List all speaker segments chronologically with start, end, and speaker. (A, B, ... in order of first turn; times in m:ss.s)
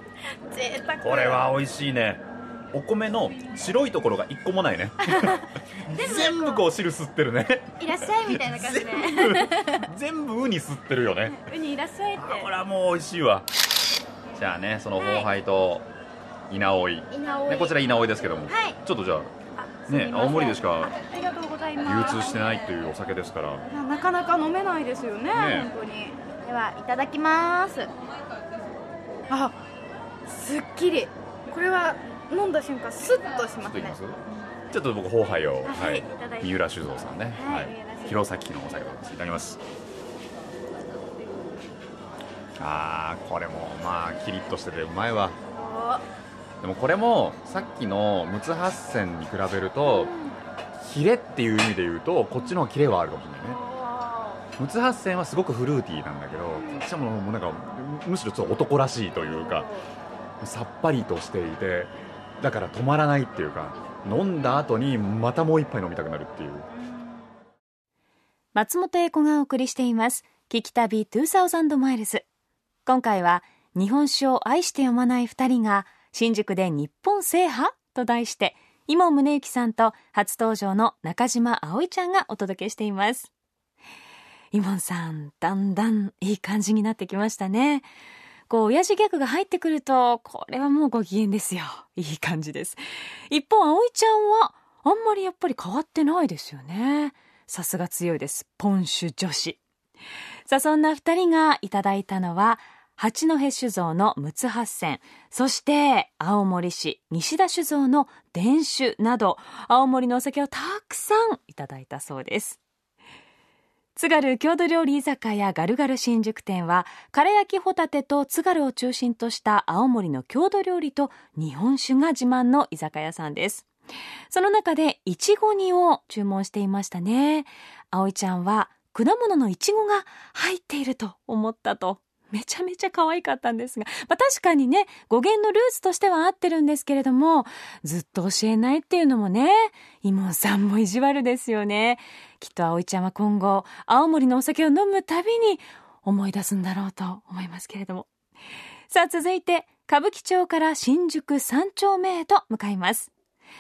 0:00.5-0:01.4 A
0:01.0-0:11.5 B
0:05.0-0:06.6 A
0:07.8-0:09.9 A
0:11.3-0:12.5 A
0:12.2-0:13.5 B
0:14.3-0:15.9 B
0:15.0-0:15.3 A
0:16.5-0:19.3 B
0:17.1-0:18.8 A
0:19.6-0:22.3 A
0:19.9-0:20.9 B
0:21.8-0:23.6 B
0:23.7-0:27.9 A
0:25.3-0:25.7 B
0:29.3-0:29.5 A
0:30.2-0:34.0 A
0:33.6-0:34.2 B
0:34.7-0:39.6 B
0:35.6-0:36.5 A
0:37.3-0:38.1 A
0:42.6-0:45.4 B
0:45.5-0:46.0 A
0:46.6-0:50.1 B
0:49.8-0:50.4 A
0:50.8-0:53.6 B
0:53.4-0:54.4 A
0:54.6-0:59.7 B
0:56.6-0:56.8 A
0:59.4-0:59.8 A
1:00.4-1:06.7 B
1:08.5-1:12.2 C
1:12.8-1:23.3 C
1:24.5-1:27.9 C
1:28.5-1:39.6 C
1:40.5-1:52.6 C
1:54.0-2:03.7 C
2:04.3-2:28.1 C
2:28.9-2:33.1 C